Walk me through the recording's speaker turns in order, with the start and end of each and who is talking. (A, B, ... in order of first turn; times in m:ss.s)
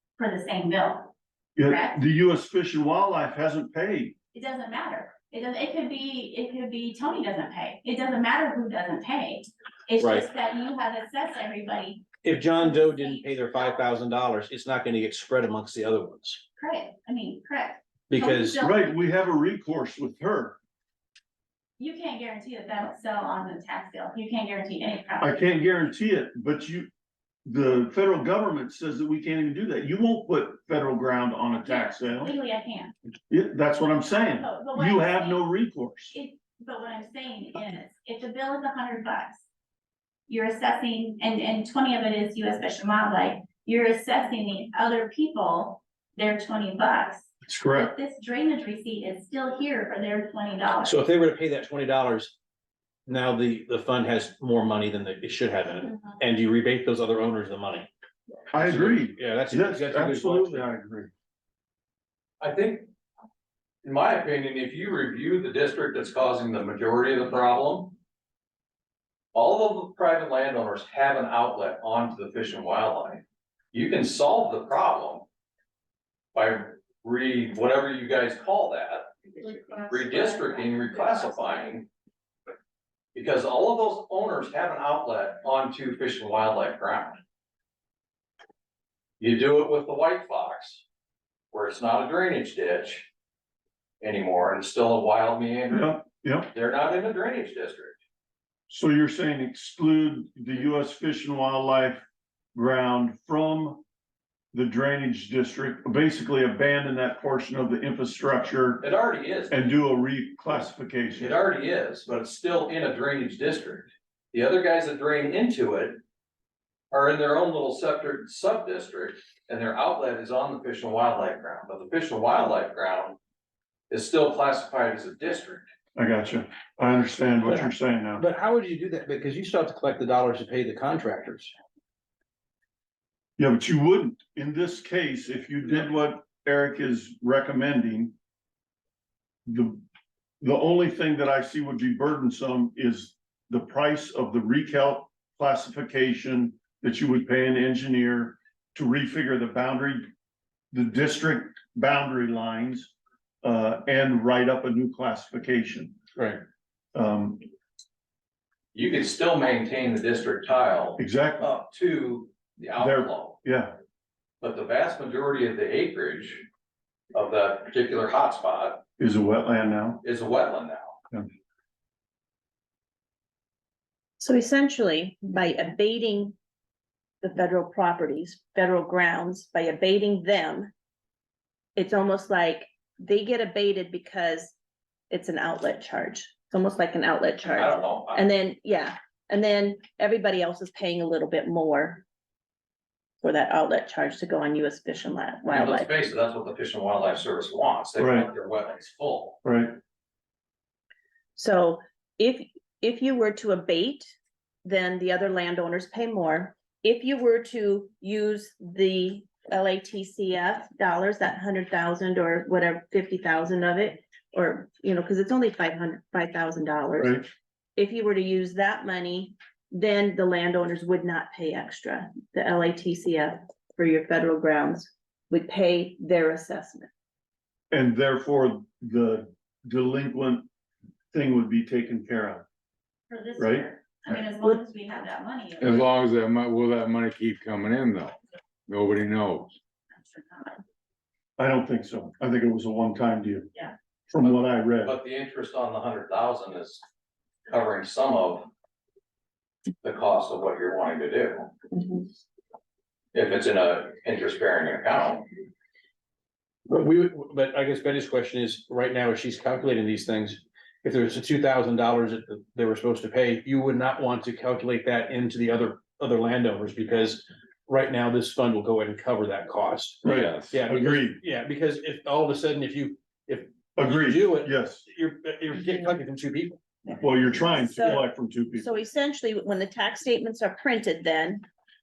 0:00.2-0:01.1 A
0:01.6-0:04.2 B
0:01.6-0:02.0 A
0:04.3-0:13.8 A
0:10.0-0:10.3 C
0:12.2-0:16.4 C
0:16.6-0:19.0 A
0:18.1-0:18.6 C
0:18.6-0:20.6 B
0:21.8-0:25.4 A
0:25.2-0:26.9 B
0:27.4-0:32.3 B
0:31.6-0:32.9 A
0:33.3-0:36.2 B
0:34.1-0:35.4 A
0:36.1-0:39.4 A
0:40.3-0:51.0 A
0:47.4-0:47.9 B
0:50.8-0:52.3 C
0:53.0-0:57.9 C
0:58.5-1:01.1 B
0:58.6-1:00.7 C
1:02.4-1:02.9 D
1:03.8-1:08.0 D
1:09.3-1:13.2 D
1:13.7-1:15.3 D
1:16.3-1:19.3 D
1:19.5-1:21.6 A
1:19.9-1:21.9 D
1:23.1-1:27.2 D
1:29.2-1:30.8 D
1:31.5-1:33.1 D
1:34.0-1:37.9 D
1:35.7-1:36.5 B
1:38.7-1:42.0 B
1:42.5-1:43.8 B
1:44.5-1:48.8 B
1:48.8-1:49.6 D
1:49.5-1:51.4 B
1:51.2-1:56.0 D
1:56.9-2:03.2 D
2:03.9-2:05.7 D
2:06.0-2:08.2 B
2:07.4-2:11.5 C
2:13.4-2:18.1 B
2:19.4-2:19.8 B
2:20.4-2:30.1 B
2:30.7-2:36.0 B
2:36.9-2:37.4 B
2:38.7-2:43.4 D
2:41.0-2:41.5 B
2:42.8-2:43.7 B
2:44.4-2:46.4 D
2:47.1-2:48.8 D
2:49.0-2:50.0 B
2:50.0-2:51.0 D
2:54.2-2:56.3 E
2:57.2-3:00.7 E
3:01.8-3:04.5 E
3:05.1-3:12.0 E
3:07.5-3:08.2 D
3:13.2-3:15.9 E
3:15.5-3:19.4 D
3:18.0-3:18.3 B
3:19.4-3:19.8 B
3:21.4-3:24.1 E
3:24.6-3:37.2 E
3:37.0-3:37.2 B
3:37.8-3:46.9 E
3:47.7-3:50.5 B
3:51.1-3:52.4 B
3:53.1-3:55.9 A
3:53.4-3:53.7 B
3:55.6-3:59.5 F
4:00.0-4:00.6 A
4:01.4-4:03.5 B
4:04.1-4:04.9 B
4:04.2-4:06.8 D
4:07.5-4:08.5 D
4:09.8-4:11.5 D
4:11.7-4:12.0 E
4:13.1-4:15.2 D
4:16.7-4:36.6 C
4:30.0-4:31.2 B
4:30.0-4:30.5 F
4:33.8-4:34.8 B
4:37.0-4:38.7 B
4:37.4-4:38.0 E
4:38.6-4:41.4 E